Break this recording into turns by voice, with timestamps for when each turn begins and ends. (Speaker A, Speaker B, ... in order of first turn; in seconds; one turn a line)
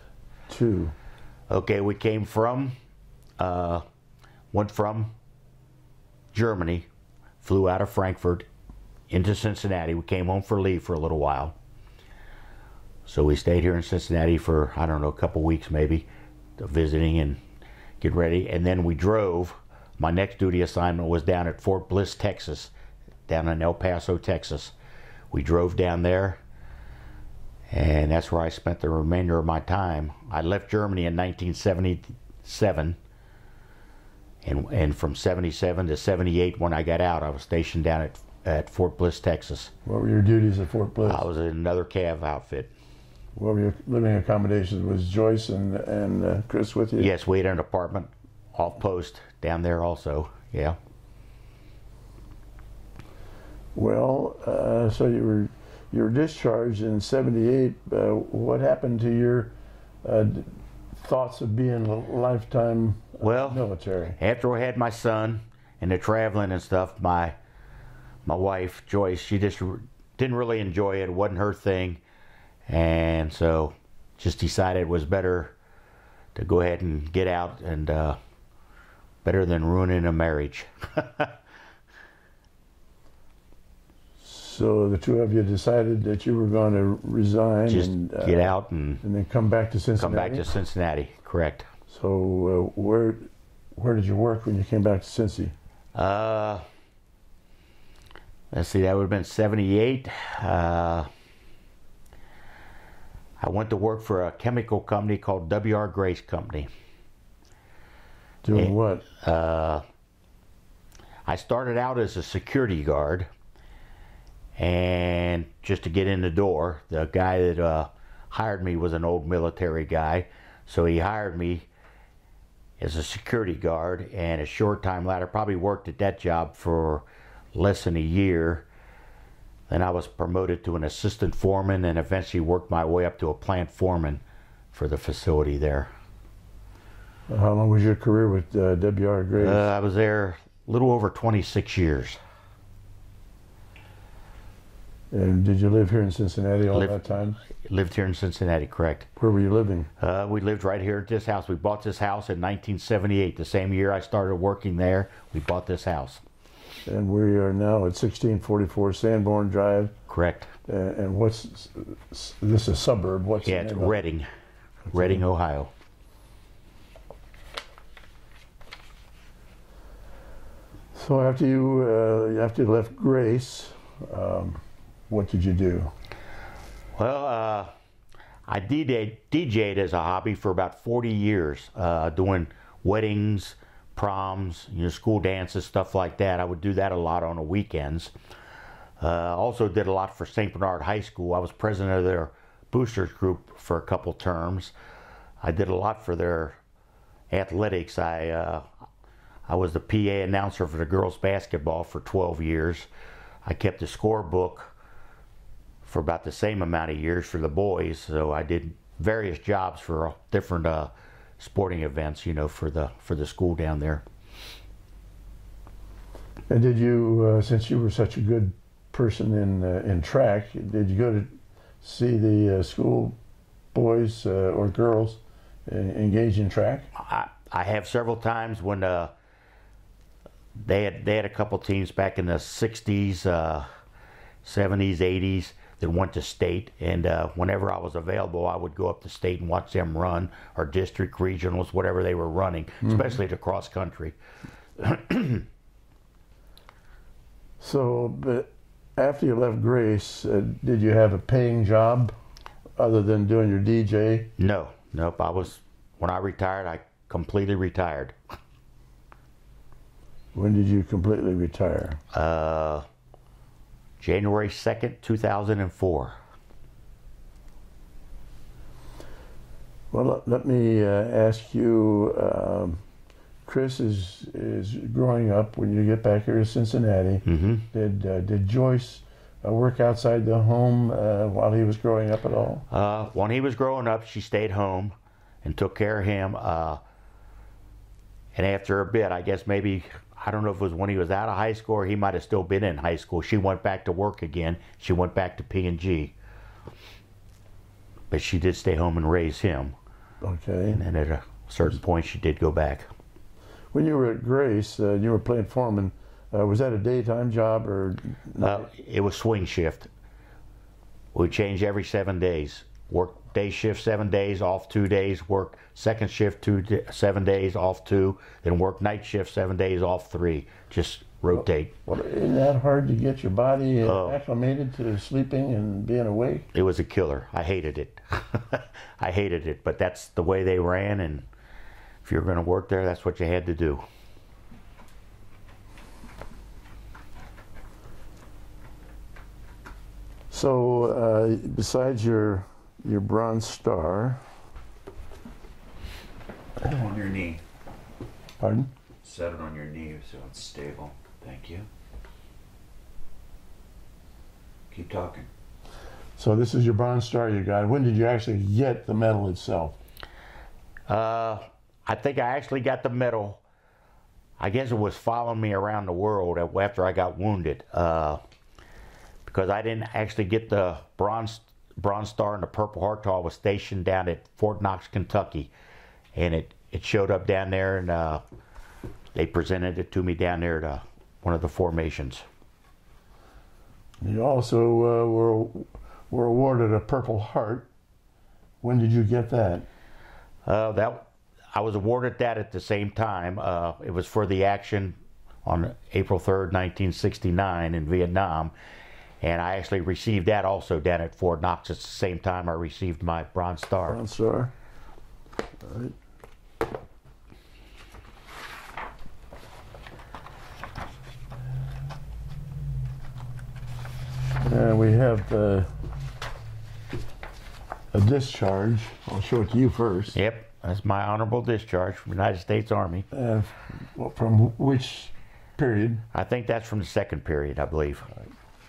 Speaker A: 0.5-0.9
Speaker B: 1.5-2.8
Speaker B: 3.4-3.8
Speaker B: 4.5-5.1
Speaker B: 6.3-6.9
Speaker B: 7.4-8.5
Speaker B: 9.1-11.5
Speaker B: 13.1-17.4
Speaker B: 18.0-22.7
Speaker B: 23.3-24.7
Speaker B: 25.3-26.4
Speaker B: 27.7-33.0
Speaker B: 34.4-39.7
Speaker A: 39.9-41.2
Speaker B: 41.0-42.7
Speaker A: 43.4-47.1
Speaker B: 47.0-50.8
Speaker A: 53.7-64.2
Speaker B: 63.2-63.6
Speaker B: 64.2-67.3
Speaker B: 68.2-72.0
Speaker B: 72.7-75.5
Speaker B: 76.3-78.2
Speaker B: 79.2-81.3
Speaker A: 84.2-90.5
Speaker B: 87.7-89.0
Speaker B: 90.0-91.7
Speaker A: 91.9-95.5
Speaker B: 95.9-96.6
Speaker B: 98.5-101.1
Speaker B: 103.4-106.7
Speaker A: 108.4-109.0
Speaker B: 108.5-109.8
Speaker B: 111.2-113.3
Speaker B: 114.6-121.7
Speaker B: 122.8-128.7
Speaker B: 129.7-134.2
Speaker B: 134.7-135.9
Speaker A: 137.3-139.7
Speaker B: 139.4-142.2
Speaker A: 145.1-147.4
Speaker B: 146.7-149.1
Speaker A: 149.2-149.9
Speaker B: 150.0-156.2
Speaker A: 156.8-159.9
Speaker B: 160.1-160.5
Speaker A: 160.7-164.0
Speaker B: 163.4-164.3
Speaker A: 164.9-165.2
Speaker B: 164.9-165.7
Speaker A: 170.9-175.9
Speaker B: 176.9-177.7
Speaker B: 178.5-188.1
Speaker B: 189.0-194.7
Speaker B: 195.4-196.6
Speaker B: 197.3-198.6
Speaker B: 199.5-202.9
Speaker B: 203.4-204.7
Speaker B: 205.8-214.0
Speaker A: 216.5-223.2
Speaker A: 223.7-226.9
Speaker B: 226.9-229.1
Speaker B: 230.6-233.7
Speaker B: 234.4-244.2
Speaker A: 242.8-243.1
Speaker B: 244.8-245.5
Speaker A: 247.6-252.1
Speaker A: 252.8-254.3
Speaker B: 254.4-258.2
Speaker A: 260.3-262.0
Speaker B: 262.1-262.9
Speaker B: 264.0-266.2
Speaker A: 269.9-272.8
Speaker A: 273.4-282.6
Speaker B: 277.2-277.7
Speaker B: 282.7-286.8
Speaker B: 288.3-296.1
Speaker B: 298.1-299.8
Speaker A: 300.2-300.8
Speaker B: 300.7-302.9
Speaker A: 303.7-308.7
Speaker B: 308.4-309.9
Speaker B: 311.1-321.7
Speaker A: 321.9-326.5
Speaker B: 323.8-324.2
Speaker B: 326.5-331.3
Speaker B: 332.0-333.8
Speaker A: 340.3-344.2
Speaker C: 346.6-347.4
Speaker A: 348.4-348.7
Speaker C: 349.0-351.7
Speaker C: 354.7-355.3
Speaker A: 356.2-359.8
Speaker B: 360.9-363.4
Speaker B: 364.4-368.2
Speaker B: 369.2-375.5
Speaker B: 376.1-378.2
Speaker B: 379.1-382.2
Speaker A: 384.0-387.7
Speaker A: 388.6-389.7
Speaker B: 390.4-398.5
Speaker B: 399.2-404.0
Speaker A: 403.9-404.5
Speaker A: 405.6-405.9
Speaker A: 414.4-415.7
Speaker A: 417.9-420.2
Speaker B: 420.1-423.1
Speaker A: 423.1-426.0
Speaker B: 426.1-428.1